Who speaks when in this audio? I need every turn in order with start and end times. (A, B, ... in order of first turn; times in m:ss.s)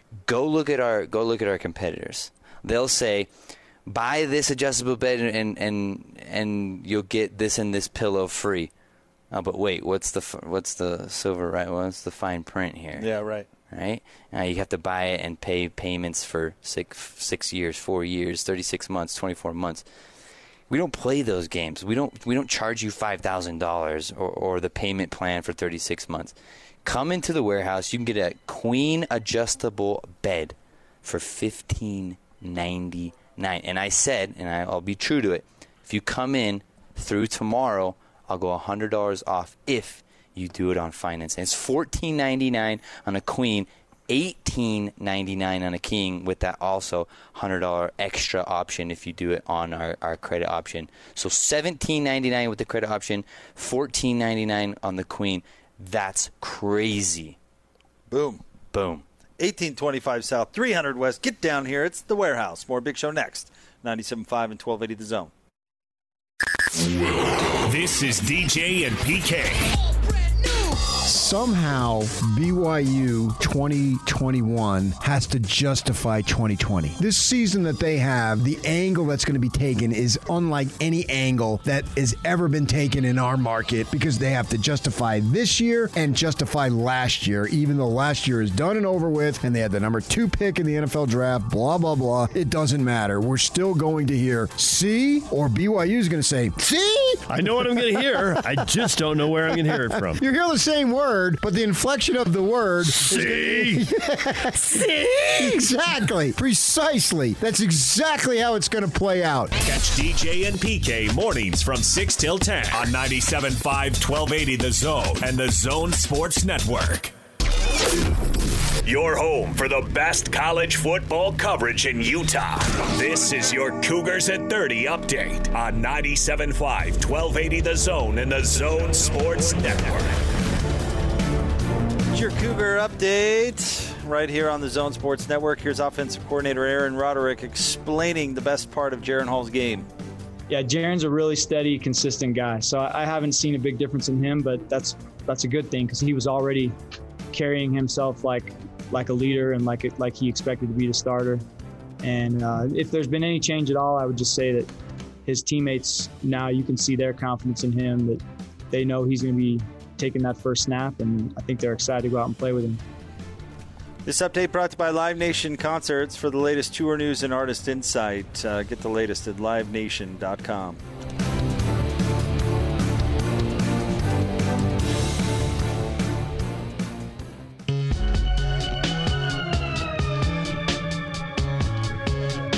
0:00.3-0:03.3 A
0:03.9-0:08.7 A
0:09.3-0:13.1 A
0:13.0-0:13.5 B
0:13.7-0:19.8 A
0:20.7-0:57.4 A
0:58.1-0:58.4 B
0:58.7-0:59.0 A
0:59.4-1:05.3 B
1:07.5-1:09.8 C
1:10.9-1:38.9 D
1:37.3-1:40.2 E
1:39.5-1:49.5 D
1:42.9-1:43.9 E
1:49.6-1:57.1 C
1:58.8-2:10.2 C
2:12.1-2:19.9 B
2:20.5-2:26.8 F
2:27.3-2:31.4 F
2:32.0-2:34.7 F
2:35.3-2:42.8 F
2:44.0-2:50.8 B